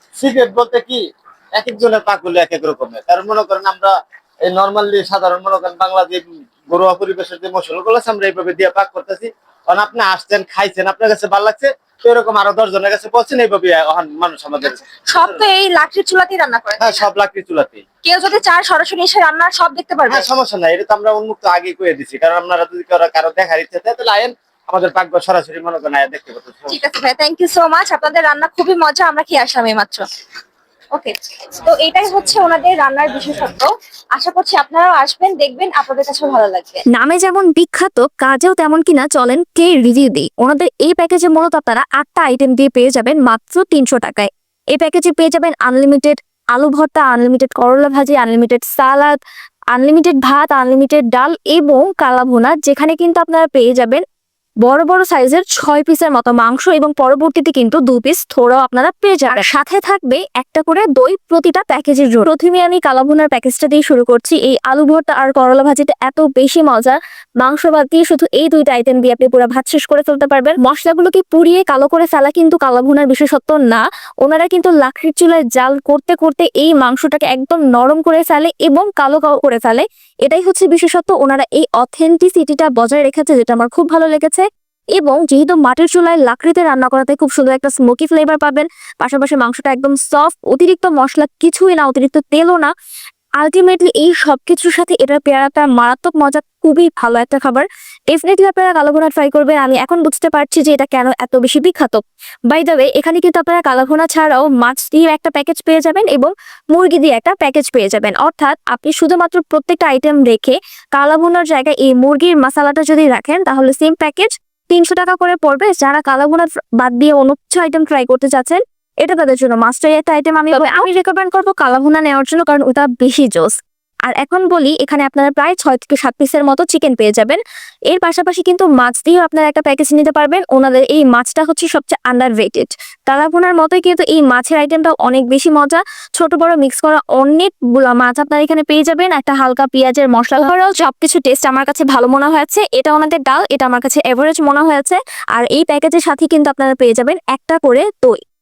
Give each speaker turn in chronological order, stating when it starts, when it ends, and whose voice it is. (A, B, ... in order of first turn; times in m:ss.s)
0:00.2-0:01.0 A
0:01.6-0:03.9 A
0:04.4-0:15.4 A
0:14.7-0:17.0 B
0:16.8-0:17.8 A
0:18.0-0:20.3 B
0:20.1-0:26.8 A
0:26.7-0:30.0 B
0:30.9-0:36.8 B
0:36.9-0:49.2 C
0:49.7-0:54.0 C
0:54.6-1:32.7 C
1:33.4-2:07.4 C
2:07.9-2:28.2 C